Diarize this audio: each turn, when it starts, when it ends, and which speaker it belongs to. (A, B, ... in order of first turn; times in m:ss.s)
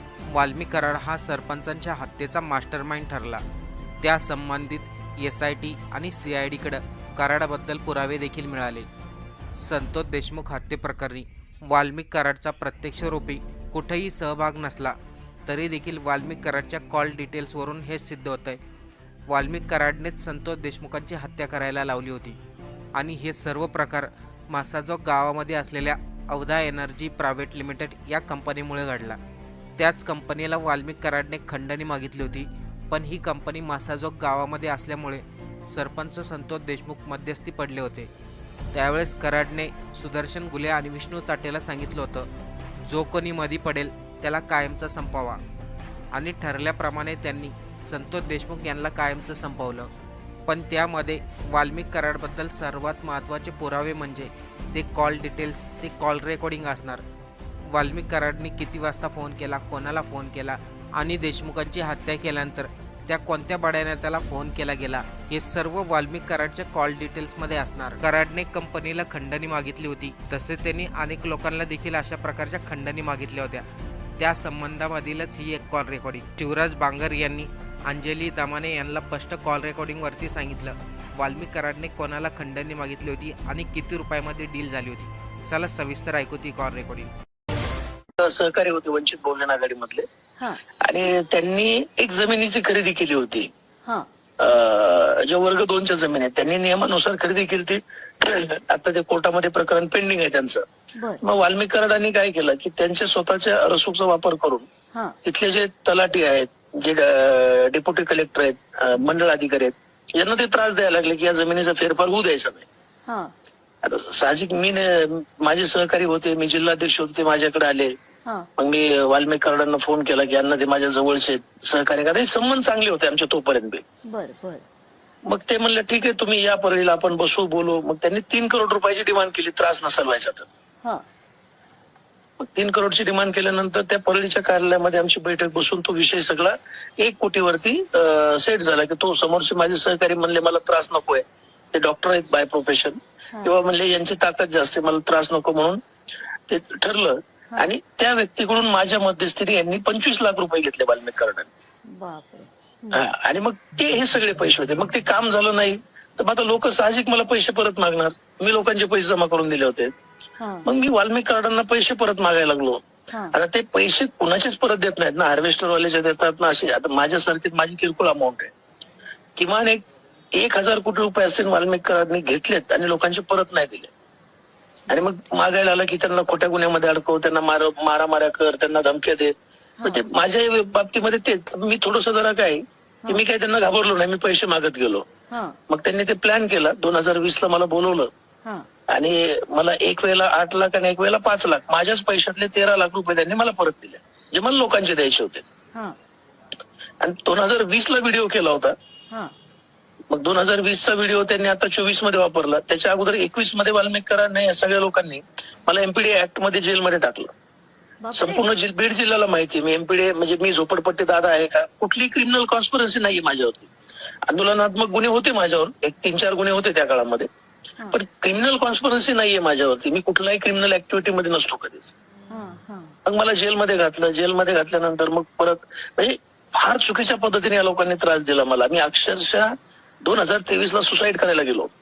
0:00.3-0:03.4 A
0:04.0-0:08.9 A
0:09.6-0:18.6 A
0:19.3-0:22.4 A
0:22.9-0:29.2 A
0:29.8-0:38.1 A
0:38.7-0:42.3 A
0:42.8-0:45.4 A
0:46.1-0:49.9 A
0:50.4-0:57.0 A
0:57.7-1:13.6 A
1:14.2-1:27.1 A
1:28.2-1:30.1 B
1:30.8-1:33.5 B
1:34.4-1:40.6 B
1:41.0-1:41.2 C
1:41.2-1:44.7 B
1:45.2-1:52.6 B
1:53.0-1:53.3 C
1:53.8-1:57.9 B
1:58.6-2:03.8 B
2:04.1-2:04.6 C
2:05.2-2:10.5 B
2:12.4-2:25.8 B
2:26.5-2:31.5 B
2:31.9-2:33.0 C
2:32.9-2:39.9 B
2:40.4-2:40.7 C
2:40.6-2:48.5 B
2:49.4-2:49.8 B
2:50.3-2:53.9 B
2:54.9-2:59.3 B
2:59.8-3:00.0 C
2:59.8-3:05.1 B
3:05.3-3:05.6 C
3:05.7-3:08.1 B
3:08.9-3:15.4 B
3:17.0-3:18.7 B
3:20.1-3:27.3 B
3:28.0-3:28.5 C
3:28.1-3:33.7 B
3:34.2-3:37.3 B
3:37.9-3:41.9 B
3:42.3-3:42.9 C
3:43.0-3:49.5 B
3:50.0-3:51.7 B